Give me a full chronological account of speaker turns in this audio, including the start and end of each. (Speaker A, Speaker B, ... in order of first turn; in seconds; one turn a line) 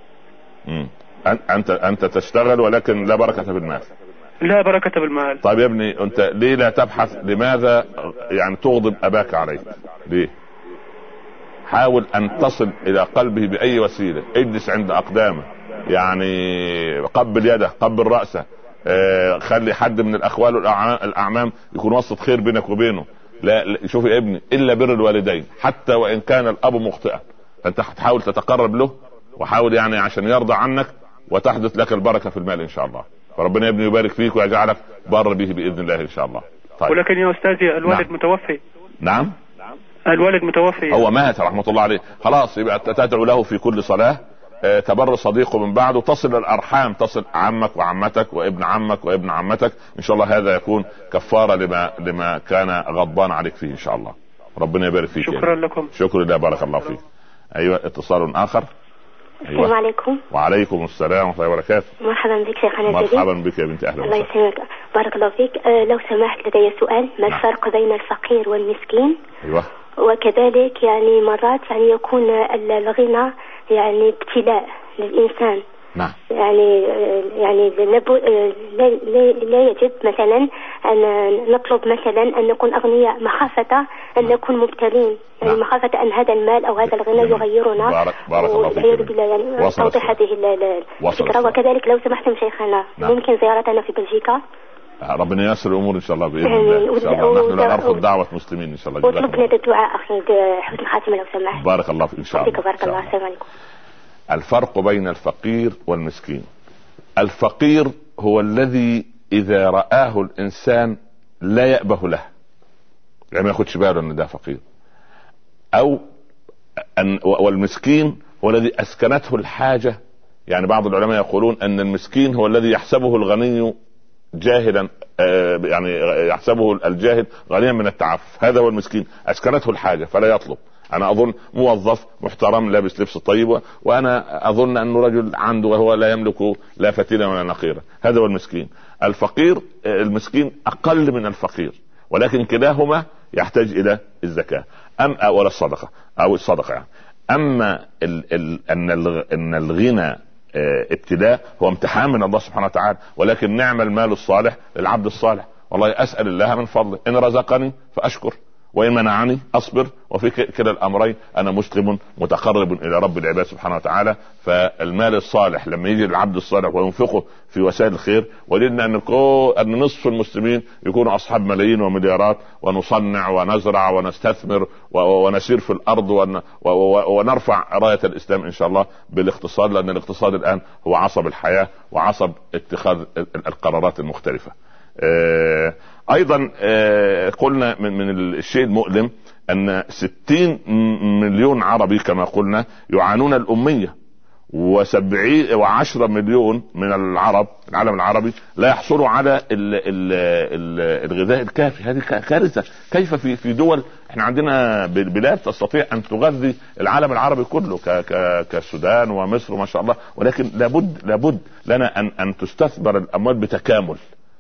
Speaker A: 0.7-3.9
Speaker B: 4.4-5.4
Speaker A: 5.4-10.3
Speaker A: 11.7-37.0
Speaker B: 36.9-38.6
Speaker A: 39.0-39.4
Speaker B: 40.1-41.1
Speaker A: 40.9-57.0
Speaker B: 55.2-55.9
Speaker A: 57.6-58.7
Speaker A: 59.5-59.7
Speaker C: 59.5-60.2
Speaker A: 60.3-61.9
Speaker C: 62.0-63.3
Speaker A: 62.9-64.3
Speaker C: 64.0-69.2
Speaker A: 69.4-69.7
Speaker C: 70.0-75.6
Speaker C: 76.3-94.4
Speaker A: 87.1-90.2
Speaker A: 91.0-91.6
Speaker A: 95.0-99.5
Speaker C: 96.4-98.0
Speaker C: 99.0-101.6
Speaker A: 101.5-103.1
Speaker C: 102.3-103.4
Speaker A: 104.3-106.5
Speaker A: 107.2-112.3
Speaker A: 113.3-114.6
Speaker A: 115.8-116.0
Speaker A: 117.0-123.8
Speaker A: 124.4-193.9
Speaker A: 194.5-214.0